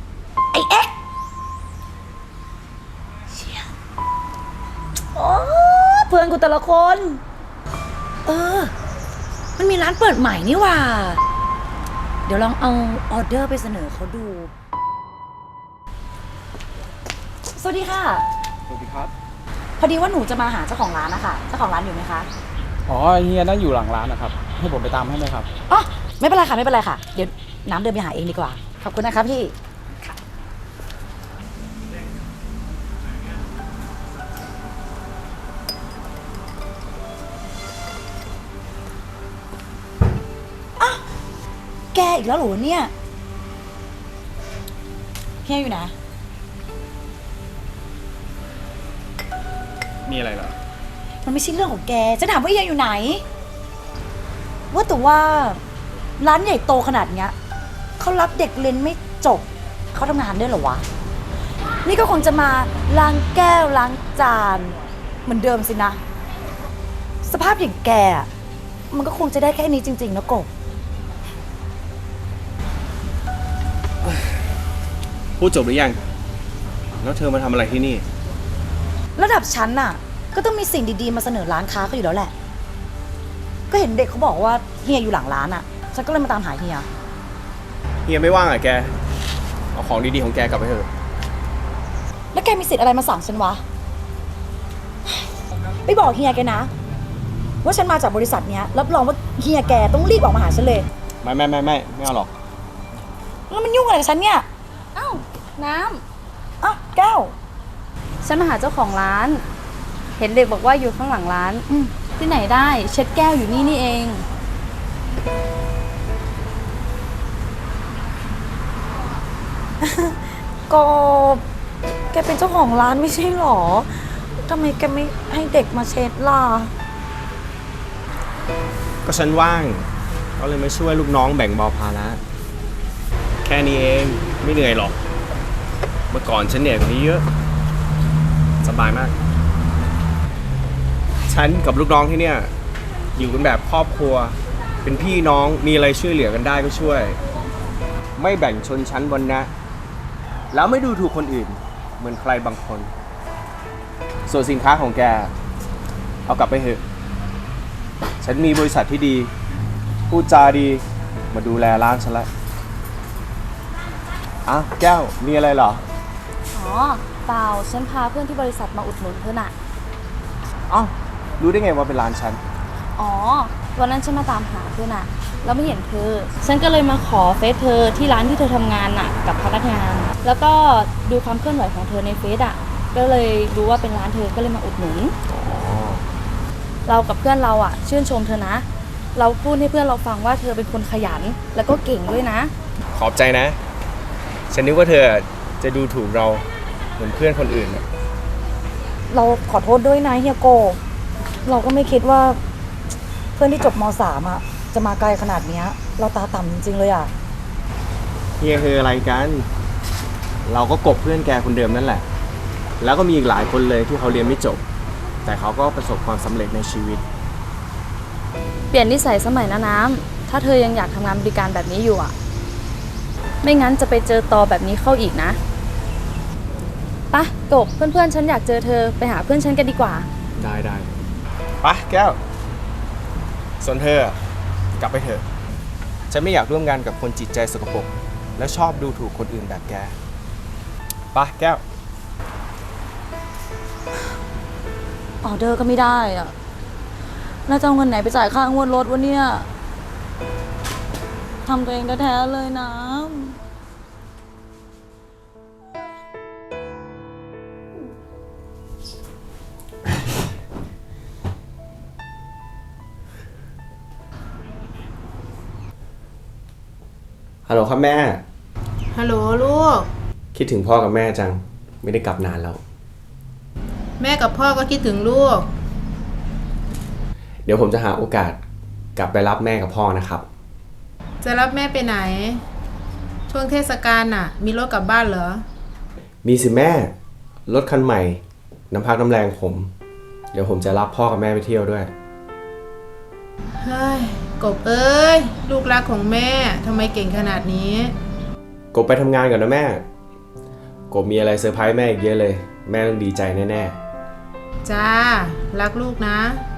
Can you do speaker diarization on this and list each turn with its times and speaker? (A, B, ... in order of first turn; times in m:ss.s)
0:00.5-0:00.9 A
0:03.3-0:03.7 A
0:05.1-0:07.2 A
0:08.2-0:08.7 A
0:09.6-0:11.2 A
0:12.3-0:14.5 A
0:17.6-0:18.2 A
0:18.7-0:19.1 B
0:19.8-0:22.3 A
0:22.9-0:25.5 B
0:25.7-0:29.5 A
0:41.9-0:42.9 A
0:45.4-0:45.9 A
0:50.0-0:50.6 C
0:51.2-0:53.2 A
0:54.7-0:55.6 A
0:56.2-0:57.4 A
0:58.0-1:00.9 A
1:01.8-1:06.0 A
1:07.2-1:08.3 A
1:08.9-1:10.5 A
1:15.4-1:16.0 C
1:17.0-1:18.0 C
1:19.2-1:22.3 A
1:23.7-1:26.9 A
1:28.1-1:28.9 C
1:29.8-1:30.9 C
1:32.3-1:33.6 A
1:35.8-1:36.7 A
1:37.6-1:40.9 A
1:41.2-1:42.3 C
1:43.5-1:44.5 A
1:45.0-1:46.0 D
1:46.6-1:47.3 A
1:48.2-1:49.4 D
1:50.2-1:51.6 D
1:52.2-1:54.2 D
1:59.8-2:01.4 A
2:02.1-2:06.7 A
2:09.0-2:09.8 C
2:10.4-2:12.2 C
2:13.4-2:15.0 C
2:16.1-2:17.2 C
2:18.6-2:19.1 C
2:21.3-2:22.5 C
2:23.2-2:27.2 C
2:28.2-2:29.5 C
2:30.5-2:32.9 C
2:34.3-2:35.3 C
2:36.3-2:36.8 C
2:38.2-2:39.3 C
2:40.1-2:42.3 C
2:44.5-2:45.8 C
2:46.5-2:49.5 D
2:50.7-2:52.4 C
2:53.0-3:05.2 D
3:05.3-3:06.0 C
3:06.9-3:12.5 D
3:12.9-3:13.6 C
3:14.5-3:16.4 C
3:17.0-3:17.8 C
3:19.1-3:20.8 A
3:21.4-3:22.4 A
3:23.4-3:27.1 A
3:28.4-3:29.5 C
3:30.5-3:32.0 C
3:32.8-3:34.6 C
3:35.2-3:37.0 C
3:38.7-3:42.1 D
3:43.4-3:45.4 D
3:47.1-3:50.1 D
3:50.4-3:50.9 C
3:51.6-3:52.2 C
3:53.6-3:54.2 C
3:54.8-3:55.2 C
3:56.1-4:00.0 C
4:01.1-4:01.6 C
4:05.2-4:06.3 A
4:07.5-4:09.5 A
4:11.4-4:13.4 A
4:27.5-4:28.2 C
4:28.9-4:29.9 E
4:30.3-4:32.6 C
4:34.0-4:35.5 E
4:37.5-4:38.4 C
4:39.0-4:40.2 C
4:41.2-4:42.4 E
4:43.3-4:45.4 E
4:46.2-4:46.9 C
4:47.5-4:49.7 C
4:50.3-4:51.9 C
4:53.6-4:57.9 E
4:58.7-4:59.8 C
5:00.9-5:03.8 C
5:04.7-5:06.4 E